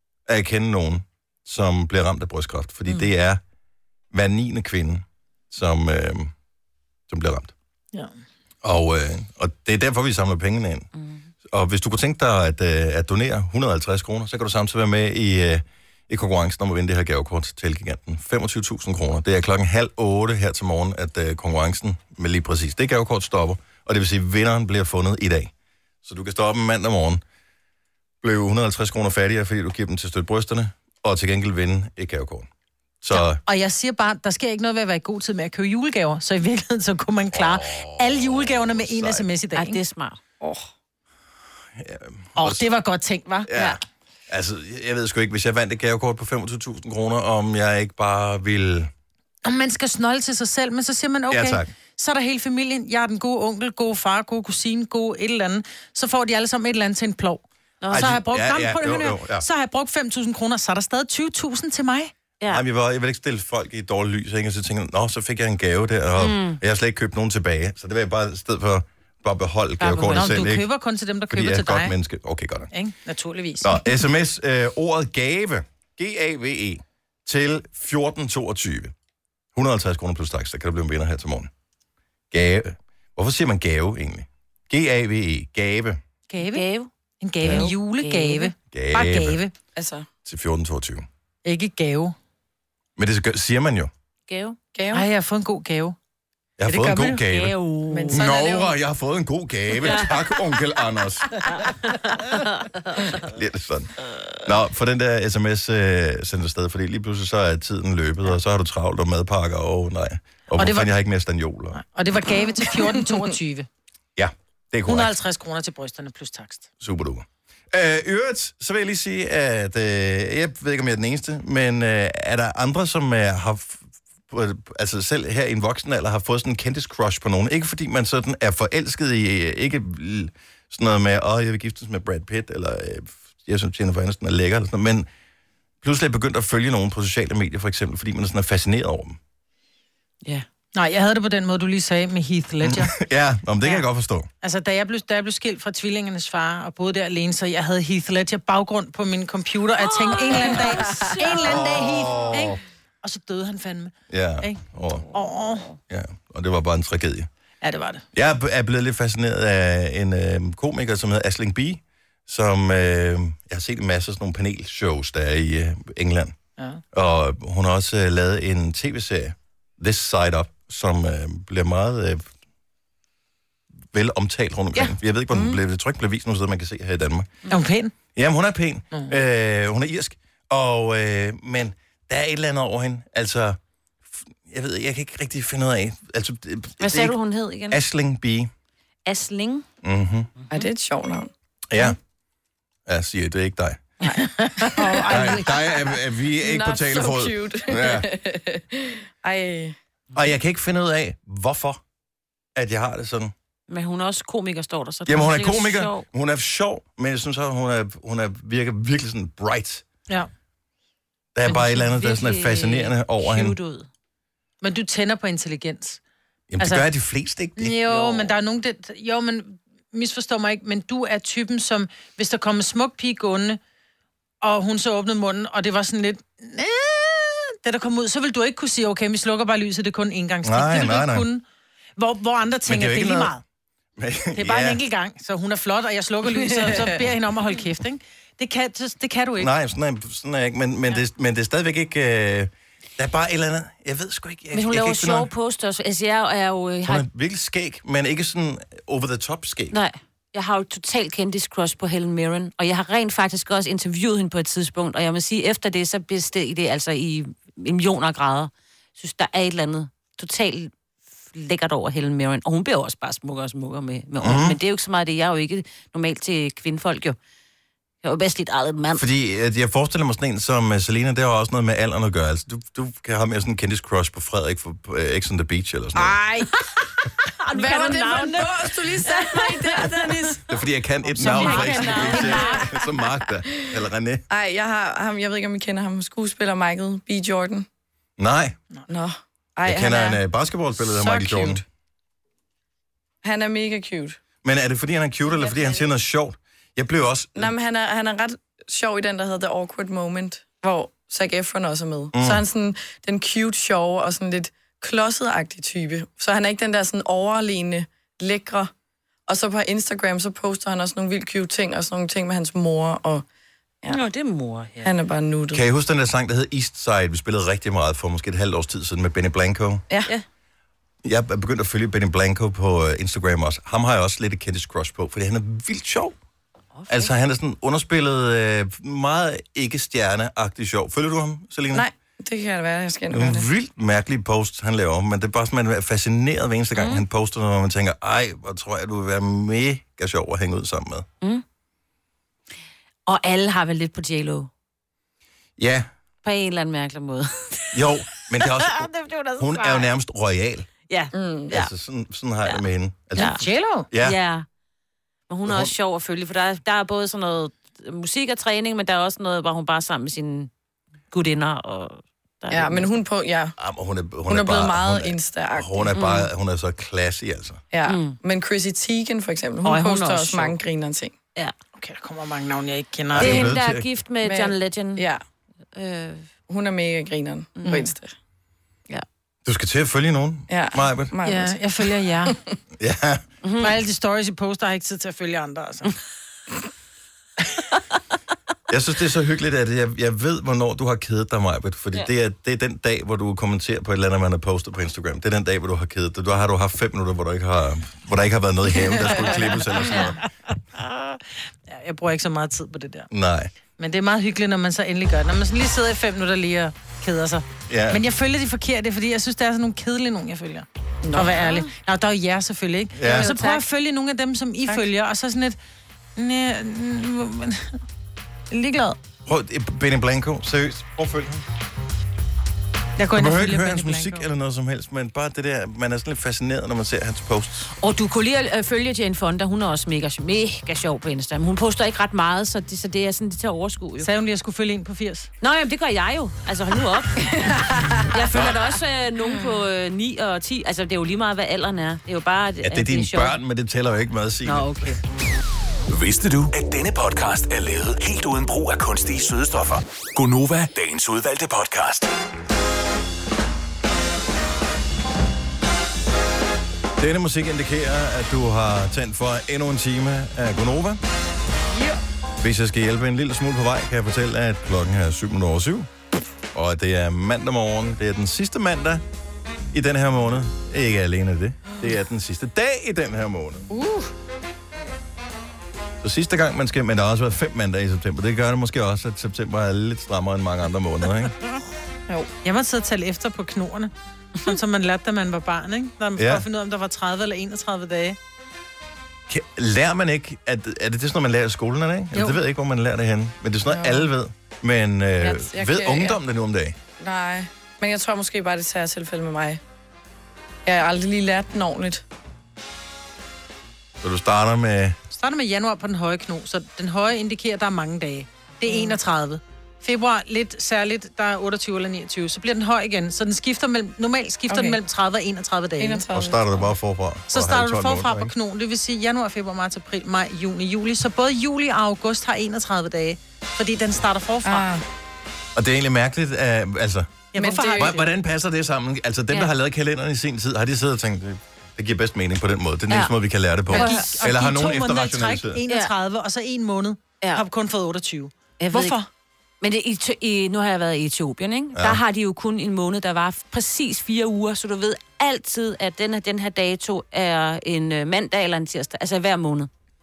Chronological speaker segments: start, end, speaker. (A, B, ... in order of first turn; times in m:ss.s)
0:00.3-0:03.4 A
0:04.1-0:06.3 A
0:07.1-0:07.5 A
0:08.6-0:10.9 A
0:11.5-0:25.5 A
0:26.0-0:27.2 A
0:28.2-0:32.5 A
0:33.0-0:33.4 A
0:33.1-0:39.8 B
0:37.3-0:39.3 A
0:39.5-0:40.2 C
0:40.4-0:40.7 D
0:41.8-0:42.7 A
0:42.4-0:43.5 B
0:43.5-0:48.9 A
0:49.4-1:02.1 B
0:51.3-0:51.7 A
0:57.8-0:58.1 C
0:57.9-0:59.5 A
1:02.5-1:10.7 A
1:06.2-1:06.6 C
1:09.8-1:10.5 C
1:09.9-1:12.0 B
1:11.3-1:12.7 A
1:12.7-1:13.9 B
1:13.6-1:18.9 A
1:19.5-1:21.5 A
1:22.3-1:26.0 A
1:26.3-1:26.7 B
1:26.4-1:26.9 C
1:27.2-1:29.5 B
1:27.4-1:28.5 C
1:28.7-1:29.4 A
1:29.8-1:30.1 D
1:30.2-1:31.1 A
1:31.4-1:32.2 B
1:33.0-1:33.9 A
1:34.3-1:34.6 C
1:34.8-1:35.1 D
1:34.9-1:36.0 B
1:36.6-1:37.6 A
1:36.7-1:37.2 B
1:37.1-1:38.2 C
1:37.9-1:38.7 D
1:38.1-1:41.6 A
1:39.8-1:40.1 C
1:41.6-1:42.6 C
1:43.1-1:43.9 A
1:44.4-1:51.8 A
1:50.6-1:50.9 B
1:51.8-1:53.7 B
1:52.4-1:53.2 D
1:54.2-1:55.2 A
1:54.9-1:56.7 B
1:56.8-2:15.1 A
2:15.8-2:19.2 A
2:20.8-2:22.9 B
2:22.6-2:24.3 A
2:24.4-2:35.7 B
2:29.8-2:31.4 C
2:31.4-2:32.6 A
2:34.1-2:35.1 A
2:35.9-2:37.3 A
2:37.6-2:38.0 B
2:38.1-2:46.4 A
2:46.9-2:52.3 A
2:53.9-2:57.3 A
2:55.3-2:55.6 D
2:57.5-2:57.9 B
2:58.2-3:03.6 A
3:04.1-3:07.2 A
3:06.8-3:07.8 C
3:07.7-3:08.5 A
3:09.1-3:09.7 C
3:09.8-3:10.3 A
3:10.4-3:10.7 C
3:10.5-3:12.0 D
3:11.7-3:12.0 A
3:12.9-3:13.8 A
3:14.0-3:15.8 D
3:14.2-3:15.6 B
3:15.1-3:18.1 A
3:16.4-3:19.8 D
3:20.2-3:21.8 A
3:22.6-3:23.3 A
3:23.7-3:26.0 C
3:25.1-3:29.8 A
3:31.4-3:33.6 A
3:31.5-3:33.9 C
3:34.6-3:36.0 B
3:36.5-3:38.3 A
3:36.6-3:36.8 B
3:37.6-3:43.6 B
3:44.4-3:51.4 B
3:50.4-3:51.3 A
3:52.0-3:53.4 B
3:52.7-3:53.4 A
3:54.0-3:54.8 A
3:54.4-3:59.5 B
3:59.4-4:05.3 A
4:04.5-4:07.0 C
4:06.8-4:09.8 A
4:09.7-4:20.7 C
4:21.3-4:27.2 C
4:24.2-4:24.6 A
4:28.0-4:29.0 C
4:29.0-4:36.2 A
4:37.5-4:40.2 C
4:37.5-4:40.4 D
4:37.8-4:38.4 B
4:40.5-4:44.2 A
4:41.2-4:42.6 B
4:41.2-4:42.7 C
4:41.8-4:42.5 D
4:44.3-4:47.7 D
4:48.2-4:48.6 A
4:48.9-4:50.2 D
4:49.6-4:51.6 A
4:50.8-4:51.6 D
4:53.2-4:54.2 D
4:54.4-4:57.5 A
4:55.4-4:55.8 C
4:57.4-5:08.7 D
5:02.1-5:02.4 A
5:09.3-5:13.3 D
5:13.9-5:14.9 C
5:14.8-5:15.6 D
5:15.5-5:19.8 A
5:21.0-5:26.2 A
5:26.8-5:27.1 C
5:26.9-5:31.9 A
5:31.7-5:33.5 D
5:33.1-5:41.1 A
5:36.8-5:37.0 C
5:43.1-5:44.5 C
5:45.6-5:45.9 A
5:46.2-5:47.8 C
5:47.7-5:48.9 A
5:48.4-5:49.9 C
5:49.4-5:50.7 A
5:50.9-5:51.7 C
5:51.1-5:51.5 D
5:51.5-5:54.2 A
5:53.2-5:53.4 C
5:53.2-5:53.9 B
5:54.0-5:54.5 C
5:55.3-6:00.5 C
5:55.5-5:55.7 A
6:01.1-6:02.9 C
6:02.5-6:03.6 D
6:03.6-6:07.6 A
6:04.3-6:06.0 D
6:05.9-6:06.3 C
6:07.7-6:11.2 D
6:07.9-6:08.2 C
6:09.6-6:10.6 C
6:11.8-6:13.5 B
6:13.2-6:13.9 A
6:13.2-6:15.0 C
6:14.2-6:15.2 D
6:15.7-6:16.3 C
6:16.5-6:18.2 D
6:17.6-6:17.9 C
6:19.4-6:21.1 A
6:20.5-6:21.7 D
6:21.2-6:22.4 B
6:22.8-6:23.2 A
6:23.4-6:23.8 C
6:23.6-6:26.0 B
6:28.7-6:40.2 A
6:40.8-6:43.1 B
6:43.1-6:43.5 A
6:43.8-6:55.6 B
6:47.7-6:48.0 A
6:51.0-6:51.4 D
6:51.4-6:51.7 C
6:53.0-6:53.3 A
6:53.1-6:53.6 C
6:56.2-6:57.8 B
6:58.5-6:59.0 B
6:59.3-7:01.4 A
7:03.0-7:04.3 B
7:03.1-7:07.7 A
7:07.8-7:14.1 C
7:14.0-7:15.3 B
7:15.4-7:23.4 C
7:17.4-7:18.1 D
7:19.2-7:19.5 D
7:22.6-7:25.0 A
7:24.4-7:25.0 C
7:25.9-7:32.1 E
7:37.0-7:41.0 A
7:42.4-7:45.9 A
7:46.5-7:49.0 A
7:49.7-7:53.7 A
7:53.7-7:54.1 D
7:56.0-8:01.3 A
8:02.4-8:08.2 B
8:06.2-8:06.4 A
8:09.3-8:16.8 A
8:13.7-8:14.1 D
8:15.2-8:16.2 D
8:17.0-8:19.6 D
8:20.7-8:22.0 D
8:24.0-8:25.0 A
8:25.1-8:36.0 B
8:28.7-8:29.0 D
8:34.5-8:34.8 D
8:35.8-8:36.7 D
8:36.1-8:38.3 A
8:37.3-8:44.7 B
8:44.4-8:44.8 D
8:45.6-8:47.2 A
8:47.3-8:48.1 B
8:47.4-8:47.9 D
8:47.8-8:55.6 A
8:53.7-8:54.0 C
8:53.7-8:59.1 B
8:58.6-8:59.0 C
8:59.6-9:09.7 C
9:01.8-9:02.0 A